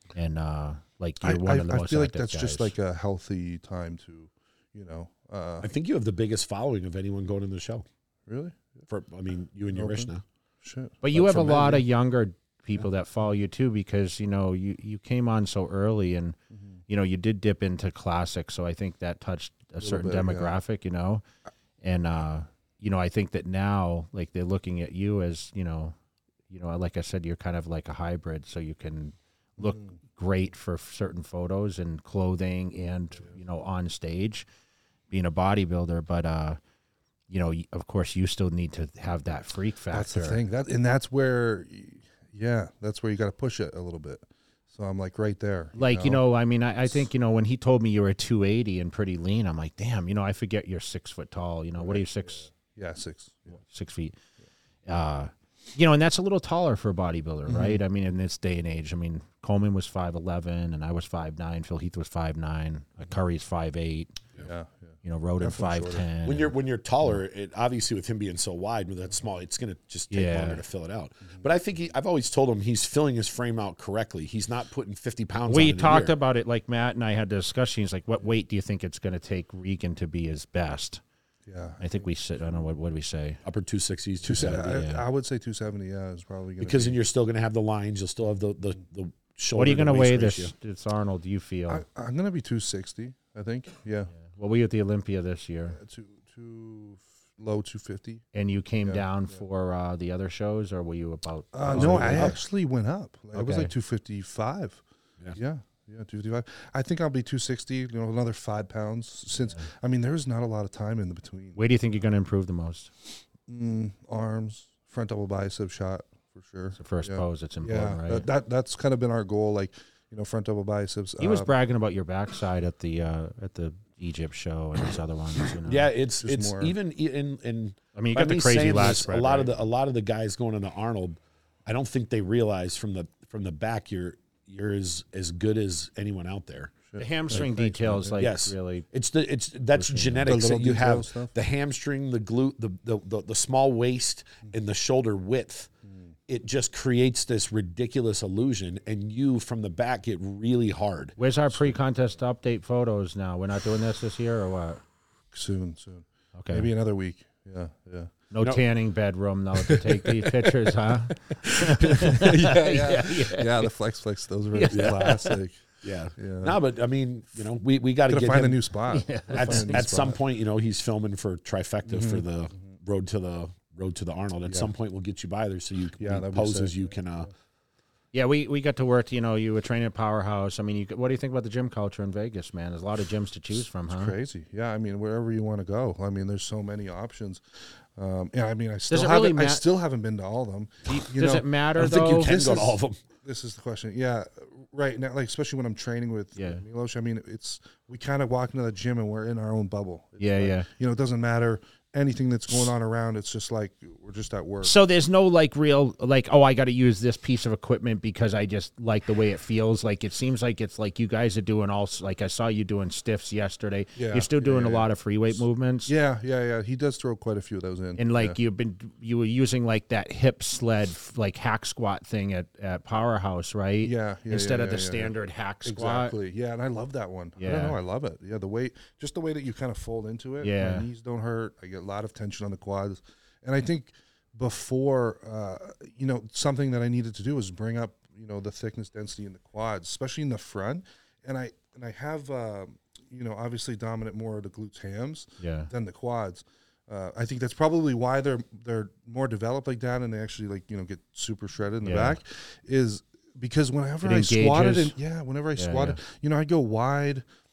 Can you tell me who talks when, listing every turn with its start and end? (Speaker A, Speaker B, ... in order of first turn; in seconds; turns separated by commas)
Speaker A: 0.1-2.7, Speaker B: 1.2-5.7, Speaker C: 5.6-7.8, Speaker B: 8.3-8.8, Speaker C: 8.9-10.2, Speaker B: 9.7-10.1, Speaker B: 10.6-11.0, Speaker A: 11.0-16.4, Speaker C: 11.2-11.8, Speaker A: 16.9-21.2, Speaker B: 19.8-20.5, Speaker A: 21.8-25.9, Speaker A: 26.5-34.5, Speaker A: 35.1-36.6, Speaker A: 37.3-40.4, Speaker B: 39.9-46.2, Speaker A: 45.8-52.5, Speaker B: 51.8-53.6, Speaker A: 53.6-54.2, Speaker A: 54.9-64.2, Speaker B: 57.5-57.8, Speaker B: 64.4-66.1, Speaker A: 65.0-66.5, Speaker C: 66.2-76.1, Speaker A: 70.1-70.6, Speaker A: 75.5-81.0, Speaker B: 81.5-82.1, Speaker A: 81.8-83.4, Speaker C: 83.4-84.8, Speaker B: 84.2-87.0, Speaker A: 84.3-85.0, Speaker C: 86.6-90.5, Speaker A: 89.5-91.8, Speaker B: 91.7-94.1, Speaker A: 94.2-95.8, Speaker B: 95.8-98.2, Speaker A: 98.3-102.4, Speaker B: 101.5-104.8, Speaker C: 101.7-102.4, Speaker A: 103.3-103.7, Speaker B: 105.3-111.6, Speaker A: 111.6-112.9, Speaker B: 113.5-121.5, Speaker A: 116.8-118.3, Speaker A: 121.2-125.9, Speaker C: 125.6-136.8, Speaker B: 126.2-126.7, Speaker A: 128.0-129.5, Speaker B: 136.9-138.3, Speaker A: 137.0-138.9, Speaker C: 138.2-145.7, Speaker A: 139.8-140.3, Speaker B: 140.3-141.3, Speaker C: 146.3-151.2, Speaker A: 151.2-154.8, Speaker B: 155.3-158.1, Speaker A: 156.3-156.7, Speaker A: 158.3-163.7, Speaker B: 161.7-165.6, Speaker A: 164.5-165.4, Speaker C: 164.7-165.1, Speaker C: 165.8-168.6, Speaker B: 166.2-166.6, Speaker B: 168.1-170.2, Speaker A: 168.9-170.1, Speaker C: 169.3-177.3, Speaker B: 171.9-172.2, Speaker B: 176.0-176.9, Speaker A: 178.1-184.1, Speaker B: 183.9-187.4, Speaker B: 187.9-204.8, Speaker A: 188.9-189.7, Speaker A: 190.9-192.3, Speaker C: 191.8-193.0, Speaker A: 196.4-196.6, Speaker A: 200.2-200.7, Speaker A: 204.6-215.9, Speaker B: 214.0-218.4, Speaker A: 218.0-226.2, Speaker B: 223.8-225.1, Speaker B: 225.7-257.2, Speaker A: 227.4-227.8, Speaker A: 230.4-230.9, Speaker A: 245.4-245.7, Speaker A: 251.8-252.2, Speaker A: 254.0-254.9, Speaker A: 255.6-256.0